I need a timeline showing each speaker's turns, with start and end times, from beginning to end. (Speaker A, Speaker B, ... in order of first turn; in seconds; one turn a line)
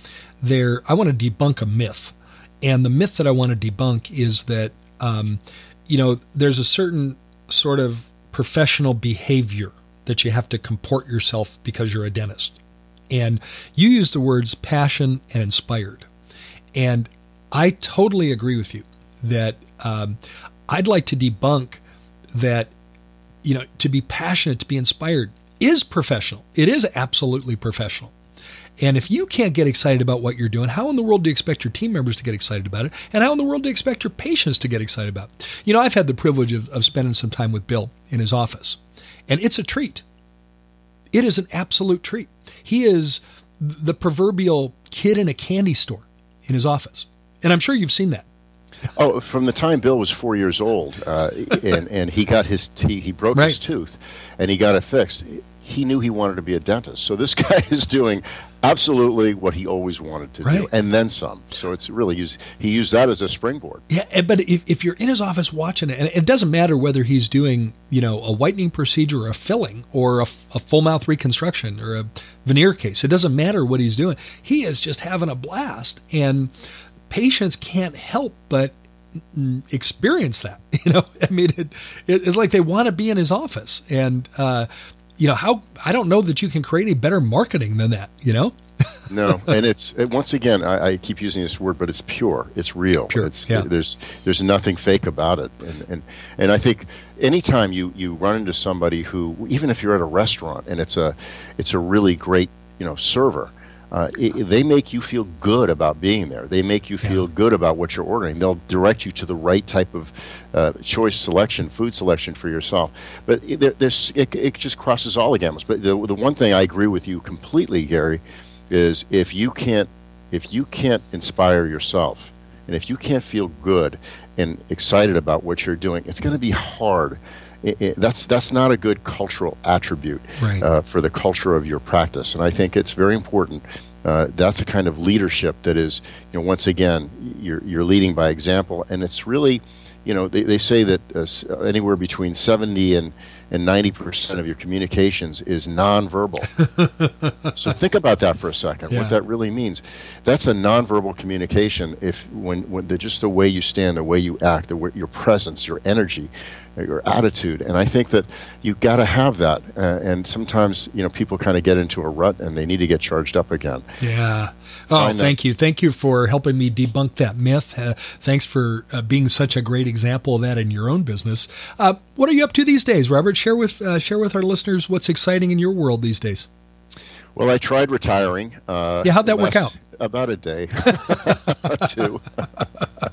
Speaker A: 0.4-12.6
Speaker A: 13.1-16.1
Speaker A: 16.7-21.8
Speaker A: 22.3-22.7
Speaker A: 23.4-28.1
Speaker A: 28.8-40.0
Speaker A: 41.1-48.2
Speaker B: 48.9-63.8
Speaker A: 60.4-60.7
Speaker A: 63.9-76.5
Speaker A: 77.1-89.1
Speaker B: 89.1-146.5
Speaker A: 93.1-93.7
Speaker A: 130.4-130.6
Speaker A: 146.6-147.5
Speaker B: 147.5-163.8
Speaker A: 148.9-149.2
Speaker A: 164.0-176.5
Speaker B: 164.9-165.3
Speaker B: 177.3-182.5
Speaker A: 179.0-179.7